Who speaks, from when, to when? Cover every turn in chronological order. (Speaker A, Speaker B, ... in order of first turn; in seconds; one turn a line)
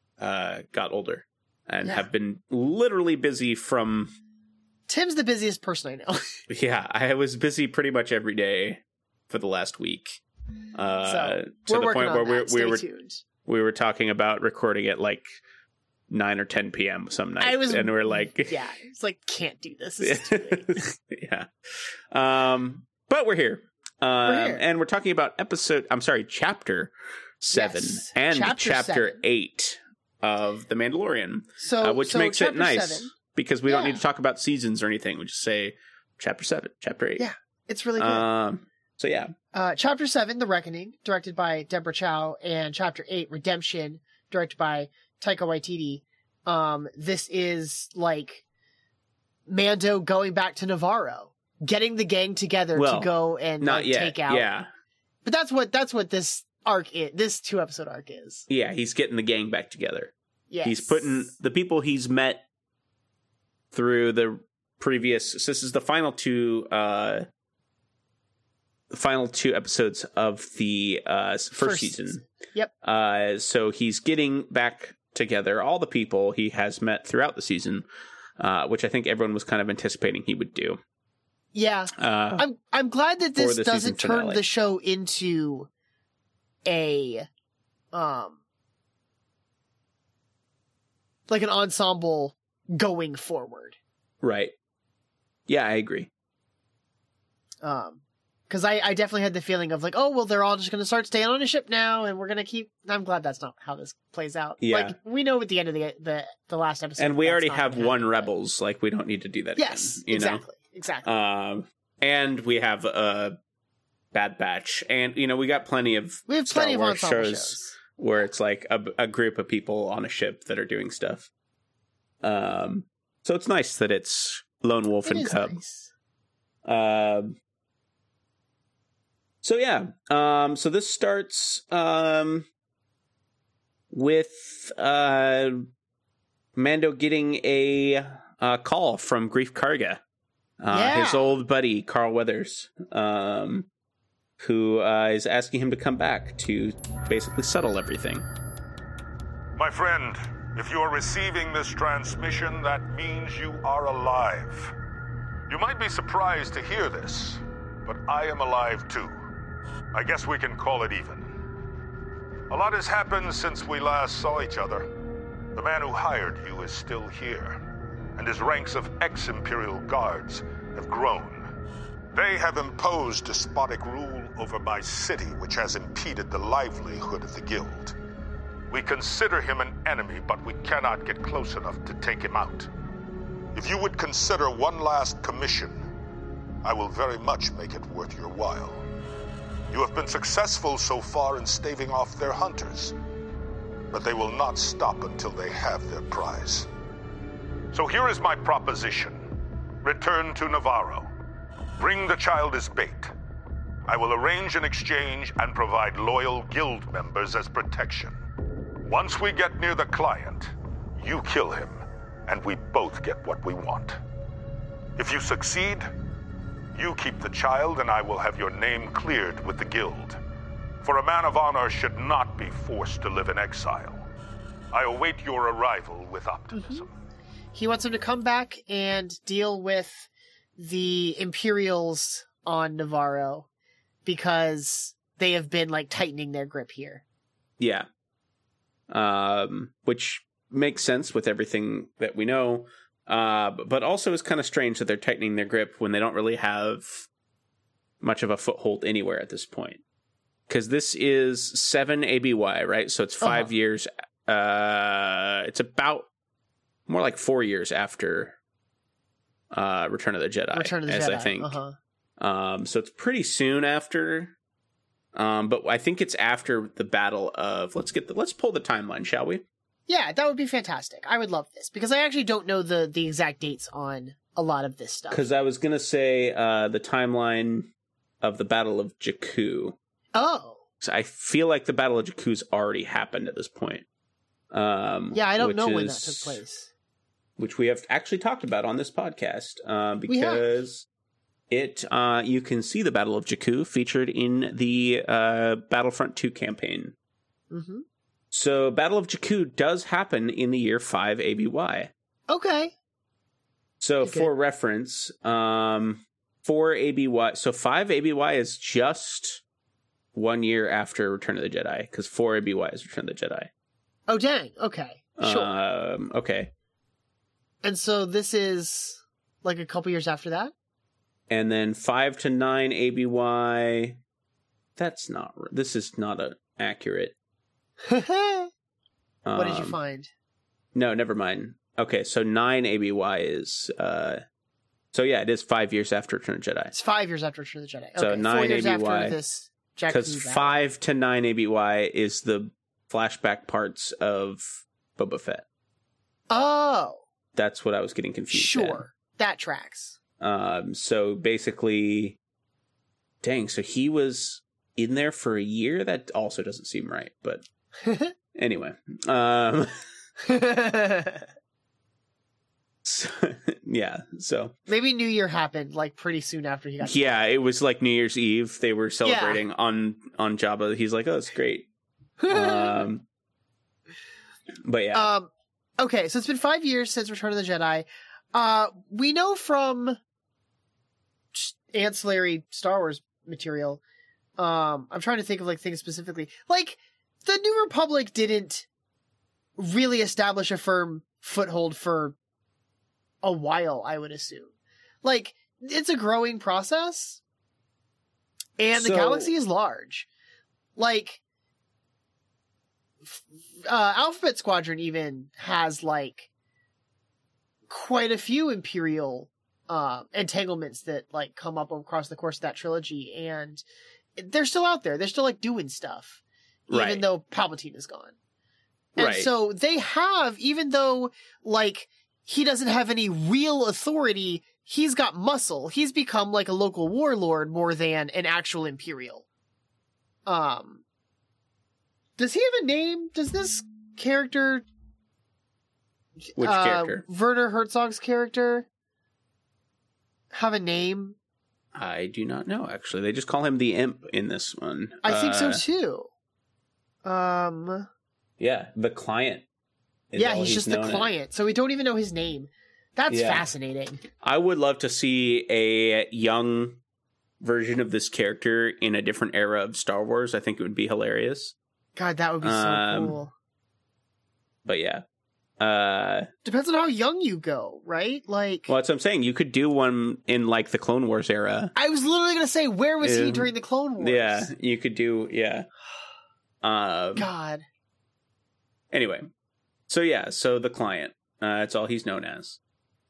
Speaker A: 0.2-4.1
Speaker B: 4.9-6.3
Speaker A: 6.5-10.2
Speaker A: 10.7-12.8
Speaker B: 11.0-13.2
Speaker A: 13.4-15.2
Speaker A: 16.1-18.6
Speaker B: 17.4-20.8
Speaker A: 20.0-21.5
Speaker A: 22.1-37.2
Speaker B: 24.2-24.6
Speaker B: 27.5-29.2
Speaker B: 31.6-33.1
Speaker B: 33.7-34.0
Speaker B: 37.2-38.2
Speaker A: 38.0-39.3
Speaker B: 39.5-48.4
Speaker B: 49.5-54.5
Speaker A: 52.7-54.7
Speaker B: 55.2-58.4
Speaker A: 58.5-60.1
Speaker B: 60.5-61.3
Speaker A: 60.6-62.4
Speaker A: 63.7-67.2
Speaker A: 68.9-72.2
Speaker B: 71.6-72.7
Speaker A: 72.8-77.8
Speaker A: 78.4-80.8
Speaker B: 81.5-85.7
Speaker A: 82.0-82.5
Speaker A: 83.3-84.4
Speaker B: 86.7-87.3
Speaker B: 87.9-88.4
Speaker B: 91.3-93.8
Speaker A: 94.2-94.5
Speaker A: 95.5-96.1
Speaker B: 97.6-108.3
Speaker A: 104.6-105.0
Speaker A: 107.0-110.4
Speaker B: 109.6-111.1
Speaker A: 111.0-113.3
Speaker A: 114.1-121.3
Speaker B: 116.3-117.7
Speaker A: 122.2-125.6
Speaker B: 125.0-125.9
Speaker A: 126.7-127.4
Speaker A: 129.4-132.4
Speaker A: 133.9-135.7
Speaker A: 136.6-140.0
Speaker A: 140.6-143.7
Speaker B: 140.7-141.3
Speaker A: 144.4-148.2
Speaker C: 149.6-154.7
Speaker C: 155.5-159.2
Speaker C: 159.9-161.3
Speaker C: 162.5-164.9
Speaker C: 165.5-167.6
Speaker C: 168.2-171.4
Speaker C: 172.1-177.9
Speaker C: 178.7-182.7
Speaker C: 183.5-185.8
Speaker C: 186.6-188.8
Speaker C: 189.7-192.9
Speaker C: 193.9-196.7
Speaker C: 197.7-199.3
Speaker C: 199.8-201.1
Speaker C: 201.8-203.1
Speaker C: 203.9-208.1
Speaker C: 208.8-214.0
Speaker C: 215.0-215.9
Speaker C: 216.8-220.2
Speaker C: 220.8-224.0
Speaker C: 224.7-226.9
Speaker B: 226.5-226.8
Speaker B: 227.5-233.5
Speaker B: 234.0-237.0
Speaker A: 237.6-237.8
Speaker A: 238.9-247.1
Speaker A: 248.0-249.8
Speaker A: 250.5-256.1
Speaker B: 253.2-253.5
Speaker A: 256.9-258.4
Speaker A: 259.5-261.6
Speaker B: 260.5-261.8
Speaker A: 262.2-264.3
Speaker A: 265.1-269.4
Speaker B: 269.9-275.2
Speaker A: 275.1-277.7
Speaker A: 278.2-279.8
Speaker B: 280.1-280.6
Speaker A: 280.8-283.8
Speaker A: 284.5-286.4
Speaker B: 285.1-286.7
Speaker A: 287.4-290.9
Speaker B: 290.1-290.4
Speaker A: 291.5-296.9
Speaker B: 297.5-297.8
Speaker A: 298.3-301.9
Speaker B: 302.3-302.7
Speaker A: 303.8-309.4
Speaker B: 304.0-304.3
Speaker A: 310.1-313.5
Speaker B: 314.1-315.5
Speaker A: 315.2-316.5
Speaker B: 317.6-320.5
Speaker A: 321.3-324.0
Speaker A: 324.8-327.1
Speaker B: 327.9-328.5
Speaker A: 329.2-329.7
Speaker B: 329.3-330.1
Speaker A: 330.7-334.2
Speaker A: 334.9-336.7
Speaker B: 336.7-340.6
Speaker A: 337.9-339.1
Speaker A: 339.9-345.4
Speaker B: 346.3-347.0
Speaker A: 347.3-348.8
Speaker B: 348.3-350.0
Speaker A: 350.2-352.2
Speaker A: 353.2-357.4
Speaker B: 357.8-358.1
Speaker A: 358.3-359.7
Speaker B: 360.2-361.2
Speaker A: 362.8-364.5
Speaker B: 364.7-367.0
Speaker A: 366.8-371.7
Speaker B: 369.0-369.4
Speaker B: 372.2-372.8
Speaker A: 372.3-373.0
Speaker A: 374.6-375.1
Speaker B: 374.9-380.0
Speaker B: 381.3-383.8
Speaker B: 384.4-388.6
Speaker B: 389.6-392.1
Speaker B: 393.2-394.5
Speaker B: 395.0-397.2
Speaker B: 398.6-400.1
Speaker A: 398.7-399.3
Speaker B: 400.8-401.2
Speaker B: 403.0-406.3
Speaker B: 407.7-413.6
Speaker B: 414.2-418.1
Speaker A: 416.7-417.0
Speaker B: 418.9-429.2
Speaker A: 419.0-419.3
Speaker B: 430.2-430.8
Speaker B: 432.2-434.6
Speaker B: 436.3-438.7
Speaker A: 436.4-437.0
Speaker B: 440.3-441.1
Speaker A: 441.7-445.6
Speaker B: 445.0-446.1
Speaker B: 447.0-447.9
Speaker A: 448.4-449.4
Speaker A: 450.1-451.1
Speaker B: 450.1-454.0
Speaker A: 453.1-453.5
Speaker A: 454.2-456.8
Speaker A: 457.4-461.5
Speaker B: 461.9-463.3
Speaker A: 462.4-463.2
Speaker A: 464.6-465.0
Speaker A: 465.6-466.3
Speaker B: 466.4-468.7
Speaker A: 468.7-471.7
Speaker B: 471.7-474.5
Speaker A: 473.0-475.7
Speaker A: 476.6-477.3
Speaker B: 477.1-477.6
Speaker A: 478.9-479.3
Speaker A: 479.9-482.6